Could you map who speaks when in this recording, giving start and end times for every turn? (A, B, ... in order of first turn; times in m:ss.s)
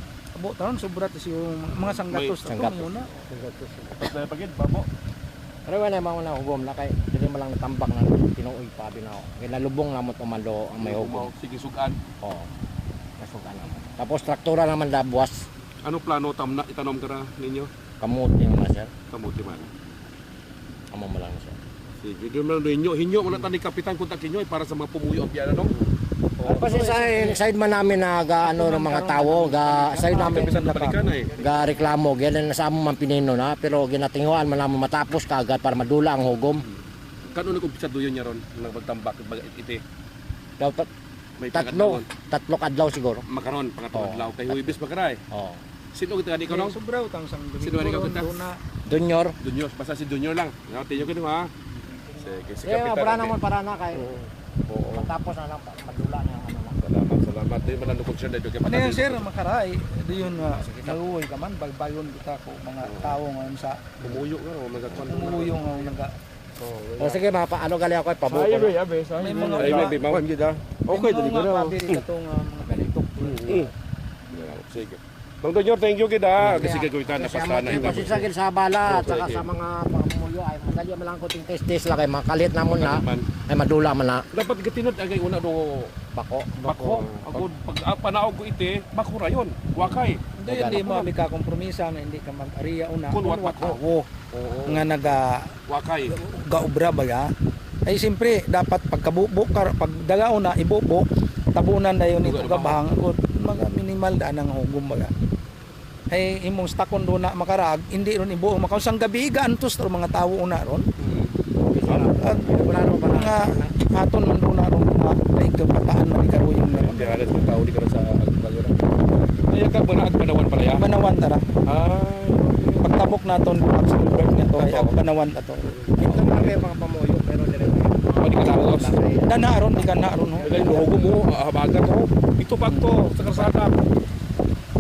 0:00.4-0:03.1 A
0:01.9-0:02.4 B
0:02.4-0:04.0 C
0:04.0-0:04.9 B
0:05.7-0:11.3 C
0:10.8-0:12.0 B
0:12.2-0:12.5 C
0:13.2-0:15.5 C
0:15.8-0:17.7 B
0:18.0-0:18.9 C
0:19.1-0:19.7 B
0:20.9-0:21.6 C
0:22.0-0:25.8 B
0:26.4-0:27.4 A
0:26.4-0:30.6 C
0:28.4-0:31.7 A
0:30.1-0:31.4 B
0:31.4-0:36.6 C
0:36.6-0:39.8 B
0:40.6-0:40.9 C
0:41.4-0:42.1 B
0:41.5-0:43.2 C
0:43.3-0:45.2 B
0:43.9-0:44.8 C
0:45.3-0:45.6 C
0:45.9-0:46.8 B
0:46.5-0:48.6 A
0:47.6-0:48.5 B
0:48.9-0:49.3 C
0:49.4-0:51.5 B
0:52.1-0:53.4 B
0:52.6-0:54.2 C
0:54.0-0:55.1 B
0:54.9-0:56.8 C
0:56.8-0:59.3 B
0:58.6-1:03.8 A
1:00.2-1:01.1 C
1:02.8-1:03.2 B
1:04.0-1:06.0 B
1:05.0-1:06.2 A
1:06.6-1:07.2 B
1:07.0-1:08.8 C
1:08.3-1:12.0 B
1:09.2-1:10.1 A
1:10.9-1:13.7 A
1:12.6-1:12.9 C
1:13.2-1:13.7 B
1:14.3-1:18.3 B
1:16.4-1:24.2 C
1:18.8-1:19.5 B
1:22.7-1:23.3 B
1:24.3-1:25.9 B
1:26.1-1:27.4 C
1:26.6-1:30.2 B
1:29.8-1:31.1 C
1:30.4-1:34.1 A
1:33.1-1:33.8 B
1:34.3-1:35.2 B
1:34.7-1:35.4 A
1:35.7-1:36.2 B
1:36.1-1:37.3 A
1:37.9-1:45.1 A
1:42.2-1:42.8 B
1:46.1-1:50.9 A
1:51.0-1:52.6 B
1:51.7-1:53.7 C
1:52.2-1:57.2 A
1:56.7-1:58.8 B
1:59.5-2:00.9 B
2:00.7-2:01.5 A
2:01.6-2:03.1 B
2:02.8-2:05.7 A
2:04.3-2:05.0 B
2:05.7-2:06.7 B
2:06.0-2:10.9 C
2:08.2-2:09.0 B
2:09.2-2:10.9 A
2:10.4-2:13.8 B